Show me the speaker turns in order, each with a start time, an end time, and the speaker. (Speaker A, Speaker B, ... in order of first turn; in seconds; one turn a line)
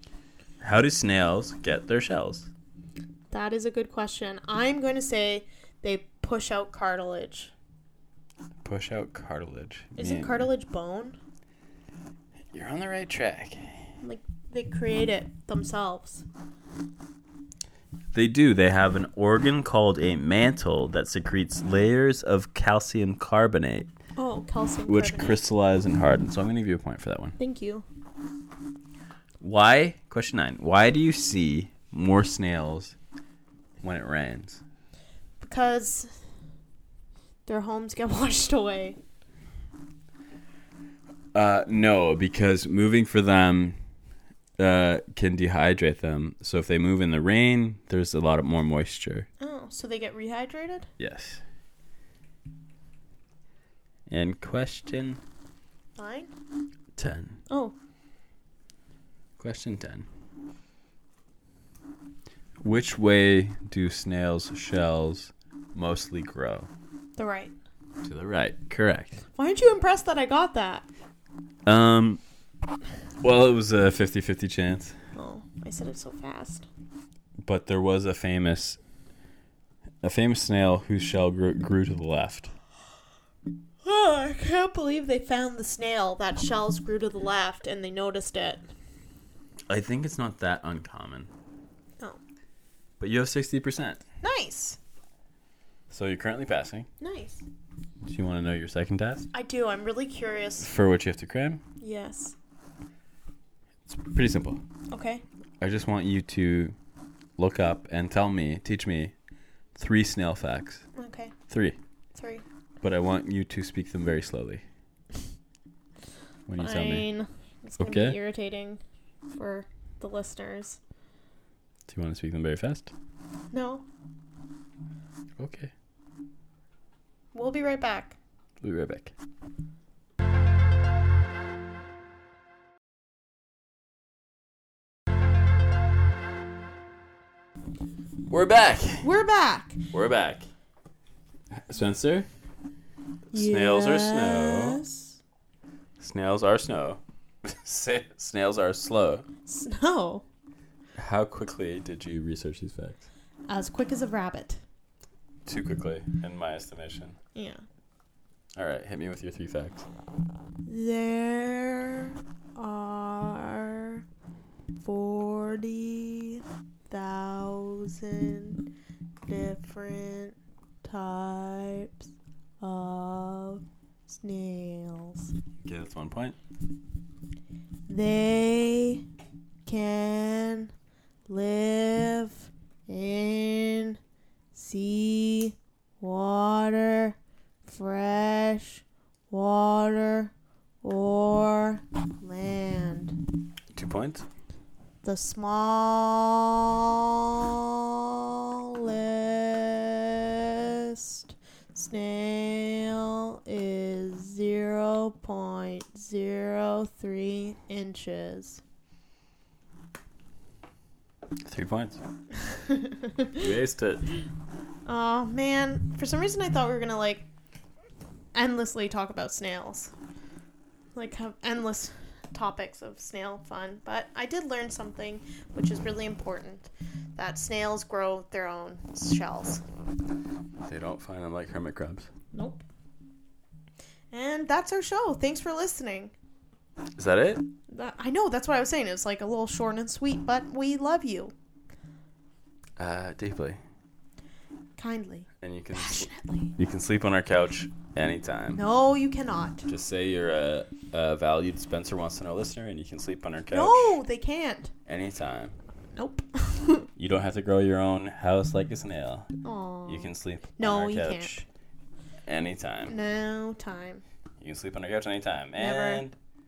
Speaker A: 0.6-2.5
Speaker B: 3.3-7.5
Speaker A: 8.6-10.5
Speaker B: 10.0-11.2
Speaker A: 12.5-13.8
Speaker B: 14.0-16.2
Speaker A: 18.1-23.9
Speaker B: 24.2-25.4
Speaker A: 24.9-27.4
Speaker B: 27.4-27.8
Speaker A: 29.4-33.0
Speaker A: 33.8-34.6
Speaker B: 35.4-36.1
Speaker B: 37.5-39.0
Speaker A: 41.3-43.8
Speaker A: 44.6-49.3
Speaker B: 49.4-50.9
Speaker A: 51.0-51.4
Speaker A: 54.1-55.2
Speaker B: 56.0-56.3
Speaker A: 57.0-57.4
Speaker B: 57.5-57.7
Speaker A: 59.4-60.0
Speaker A: 62.6-66.7
Speaker B: 67.2-67.5
Speaker A: 68.0-69.2
Speaker B: 69.3-70.8
Speaker A: 71.7-72.2
Speaker A: 73.2-74.9
Speaker B: 75.1-76.7
Speaker A: 77.4-78.8
Speaker A: 80.0-82.5
Speaker B: 83.8-88.6
Speaker A: 89.7-91.3
Speaker A: 93.0-94.0
Speaker B: 94.2-94.8
Speaker A: 95.9-96.9
Speaker B: 97.0-97.4
Speaker A: 98.0-99.3
Speaker B: 99.3-100.7
Speaker A: 100.6-101.6
Speaker B: 101.8-102.3
Speaker A: 103.9-104.6
Speaker B: 104.9-105.2
Speaker A: 105.6-106.7
Speaker A: 107.4-109.1
Speaker A: 109.8-110.8
Speaker B: 111.0-111.3
Speaker A: 111.5-111.8
Speaker B: 112.1-112.4
Speaker A: 112.8-114.6
Speaker A: 116.5-117.1
Speaker B: 116.6-118.8
Speaker A: 117.8-118.2
Speaker B: 119.3-120.8
Speaker A: 121.9-122.9
Speaker B: 123.5-123.8
Speaker A: 125.4-125.7
Speaker B: 127.3-128.2
Speaker A: 128.6-129.1
Speaker A: 138.3-139.1
Speaker B: 139.0-139.8
Speaker A: 139.9-140.5
Speaker A: 141.7-142.3
Speaker A: 143.3-144.8
Speaker B: 143.3-145.2
Speaker A: 146.0-149.2
Speaker B: 149.5-150.2
Speaker A: 151.0-153.1
Speaker B: 153.5-154.6
Speaker A: 155.4-157.2
Speaker B: 157.3-157.6
Speaker A: 158.6-159.8
Speaker B: 160.7-164.0
Speaker B: 164.8-168.6
Speaker B: 169.2-172.1
Speaker B: 172.6-175.3
Speaker A: 175.6-176.3
Speaker B: 177.9-179.0
Speaker B: 179.7-180.7
Speaker B: 181.3-184.0
Speaker B: 184.5-190.3
Speaker B: 190.8-193.2
Speaker A: 193.7-194.2
Speaker B: 195.0-198.2
Speaker B: 198.7-208.6
Speaker A: 211.4-212.0
Speaker B: 212.4-213.4
Speaker A: 213.3-214.1
Speaker B: 214.8-217.3
Speaker B: 218.3-219.9
Speaker B: 220.9-229.6
Speaker A: 230.6-232.1
Speaker B: 232.3-232.6
Speaker B: 234.1-236.1
Speaker A: 237.0-237.4
Speaker B: 237.7-241.3
Speaker A: 242.8-243.6
Speaker B: 244.8-246.5
Speaker A: 245.4-248.6
Speaker B: 248.5-249.7
Speaker A: 249.7-253.9
Speaker B: 253.5-254.7
Speaker A: 254.9-255.6
Speaker B: 255.9-256.9
Speaker A: 257.0-259.3
Speaker B: 259.4-261.4
Speaker A: 259.9-261.4
Speaker A: 262.3-262.9
Speaker B: 262.9-264.0
Speaker A: 264.4-266.1
Speaker B: 265.6-266.0